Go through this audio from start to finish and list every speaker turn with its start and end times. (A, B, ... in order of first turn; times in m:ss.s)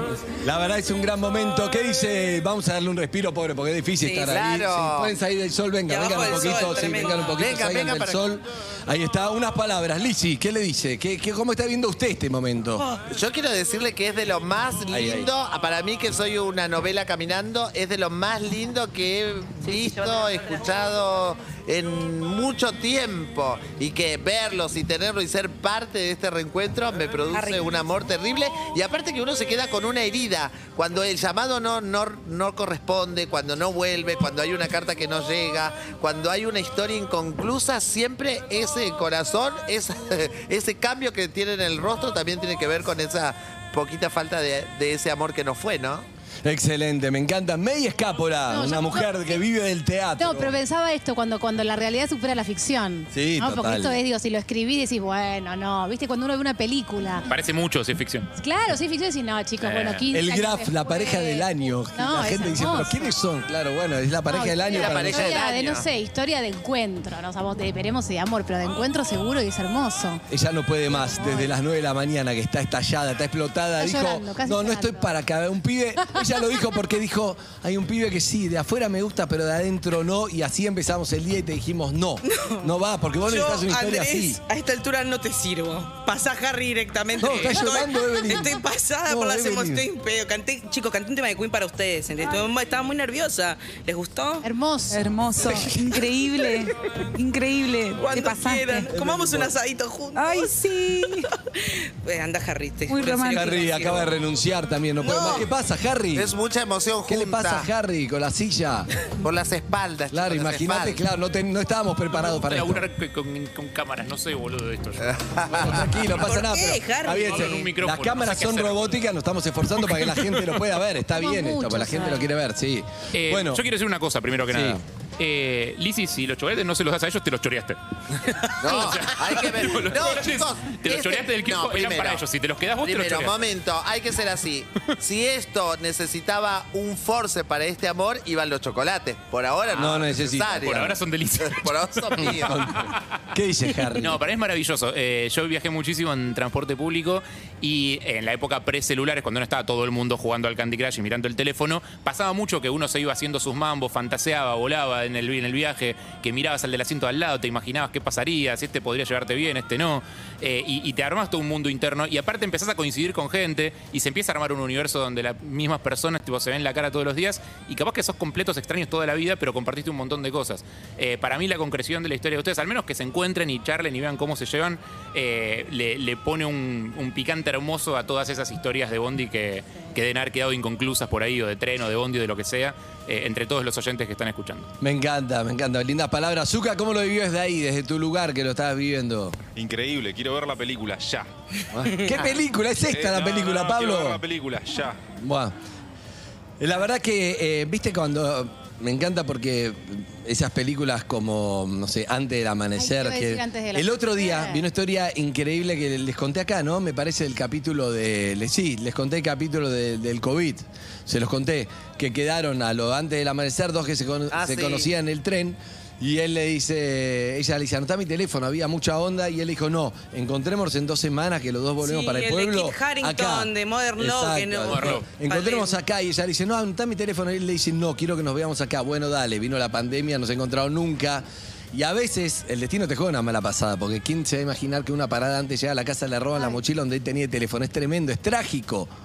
0:00.4-0:12.8 A
0:04.0-0:04.4 B
0:04.3-0:05.1 C
0:05.9-0:07.4 B
0:07.3-0:08.2 C
0:13.1-0:46.1 C
0:14.9-0:15.3 A
0:46.4-0:50.6 A
0:48.5-0:49.4 D
0:50.2-0:57.3 D
0:53.1-0:54.0 A
0:57.3-0:58.3 E
0:58.4-1:03.1 D
0:59.6-1:00.0 E
1:00.1-1:05.4 A
1:04.3-1:10.2 D
1:04.7-1:05.9 C
1:10.3-1:24.4 A
1:10.9-1:11.5 D
1:13.8-1:15.1 D
1:22.2-1:34.5 B
1:27.2-1:29.8 A
1:27.2-1:27.6 E
1:34.4-1:35.1 D
1:34.9-1:38.9 F
1:35.4-1:36.6 B
1:38.0-1:40.6 B
1:38.9-1:39.5 A
1:40.2-1:41.3 F
1:41.1-1:44.2 B
1:42.9-1:43.7 F
1:43.3-1:46.3 A
1:45.0-1:45.5 B
1:46.2-1:47.7 C
1:47.1-1:48.9 A
1:49.2-1:51.0 C
1:50.1-1:52.9 A
1:52.1-1:55.6 E
1:55.0-1:55.9 C
1:55.6-2:03.6 A
1:56.2-1:57.7 B
1:57.1-1:59.0 E
1:59.9-2:00.4 E
2:01.1-2:02.2 D
2:03.1-2:07.8 E
2:04.5-2:04.8 A
2:08.4-2:13.4 E
2:08.6-2:12.2 C
2:08.7-2:08.9 D
2:12.8-2:22.6 C
2:19.7-2:20.9 A
2:20.5-2:22.5 E
2:22.2-2:24.2 A
2:23.9-3:04.7 E
3:04.8-3:09.4 A
3:09.6-3:11.3 G
3:11.7-3:14.2 A
3:11.8-3:12.2 B
3:12.9-3:15.0 G
3:15.2-3:15.5 A
3:16.6-3:58.9 A
3:22.8-3:24.6 D
3:34.3-3:34.9 C
3:41.8-3:45.8 B
3:44.7-3:45.1 E